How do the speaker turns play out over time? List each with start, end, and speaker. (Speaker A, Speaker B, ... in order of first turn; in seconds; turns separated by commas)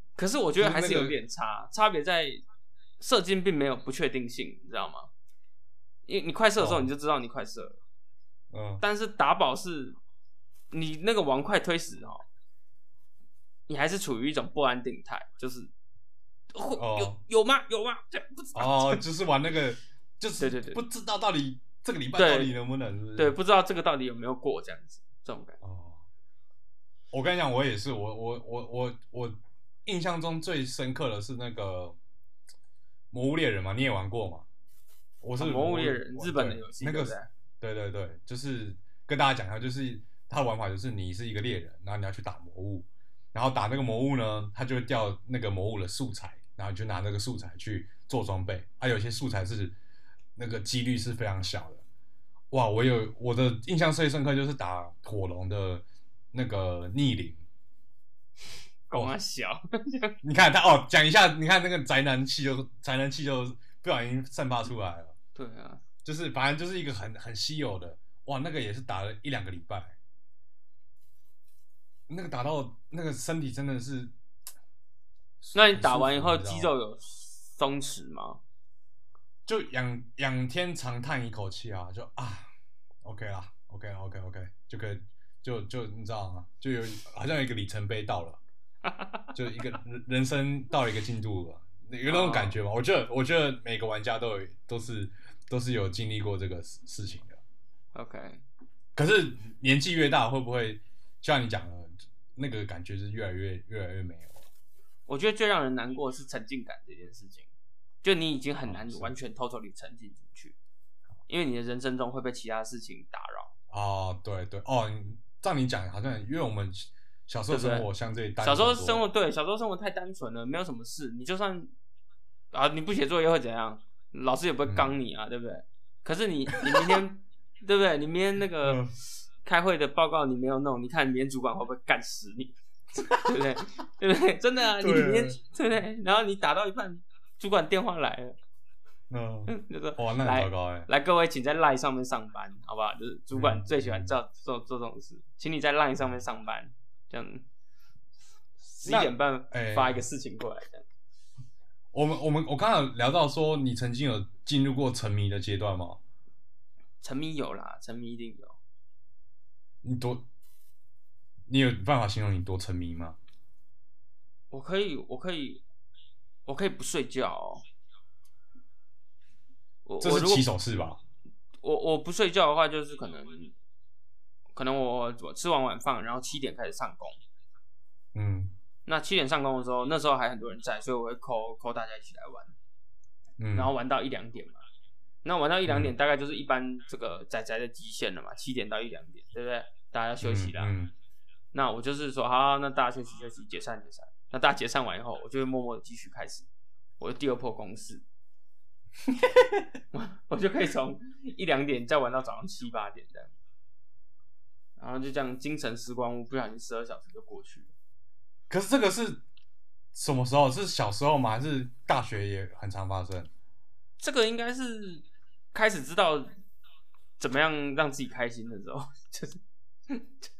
Speaker A: 0.2-2.4, Speaker B: 0.6-1.2, Speaker A: 3.0-5.1, Speaker A: 6.1-7.8, Speaker B: 6.6-6.9, Speaker B: 8.5-8.8, Speaker A: 8.8-10.0, Speaker A: 10.7-12.2, Speaker A: 13.7-15.7, Speaker A: 16.5-19.0, Speaker B: 16.8-17.1, Speaker B: 18.5-23.3, Speaker A: 20.4-20.8, Speaker A: 22.1-22.5, Speaker A: 23.1-25.6, Speaker B: 25.6-26.0, Speaker B: 27.1-31.9, Speaker B: 33.1-34.5, Speaker B: 35.2-49.8, Speaker A: 35.4-37.3, Speaker B: 50.4-51.8, Speaker B: 52.5-57.4, Speaker A: 58.9-60.1, Speaker B: 60.2-65.1, Speaker A: 65.3-65.8, Speaker B: 66.0-70.0, Speaker B: 72.1-74.1, Speaker B: 75.4-76.7, Speaker A: 75.5-78.4, Speaker B: 79.5-82.5, Speaker B: 83.0-88.4, Speaker A: 88.8-89.3, Speaker B: 89.3-97.4, Speaker A: 92.0-92.6, Speaker A: 97.9-98.4, Speaker B: 99.0-104.5, Speaker A: 105.1-107.5, Speaker A: 108.0-110.5, Speaker B: 108.6-109.1, Speaker A: 111.3-113.5, Speaker B: 113.7-119.0, Speaker A: 117.5-117.9, Speaker A: 118.4-121.7, Speaker A: 122.5-132.5, Speaker B: 124.7-124.9, Speaker B: 126.7-127.0, Speaker B: 128.6-128.9, Speaker B: 133.0-133.4, Speaker A: 133.1-138.4, Speaker B: 134.8-135.4, Speaker B: 139.1-140.9, Speaker A: 139.5-147.4, Speaker B: 143.3-144.2, Speaker A: 148.6-150.8, Speaker B: 148.8-150.0, Speaker B: 151.9-156.0, Speaker A: 157.0-158.6, Speaker B: 159.8-160.2, Speaker B: 161.5-163.2, Speaker A: 164.5-165.6, Speaker A: 166.4-167.6, Speaker A: 169.8-170.4, Speaker B: 170.0-171.0, Speaker A: 171.6-173.5, Speaker A: 174.5-177.2, Speaker B: 178.1-178.5, Speaker A: 178.8-182.5, Speaker B: 183.4-183.7, Speaker A: 183.5-184.6, Speaker A: 185.2-190.7, Speaker B: 185.7-185.9, Speaker B: 190.2-190.9, Speaker A: 191.5-196.5, Speaker A: 197.0-198.0, Speaker B: 199.1-199.7, Speaker A: 199.9-203.3, Speaker A: 204.8-207.7, Speaker B: 208.5-209.2, Speaker B: 209.9-213.3, Speaker A: 214.0-216.4, Speaker A: 217.2-220.2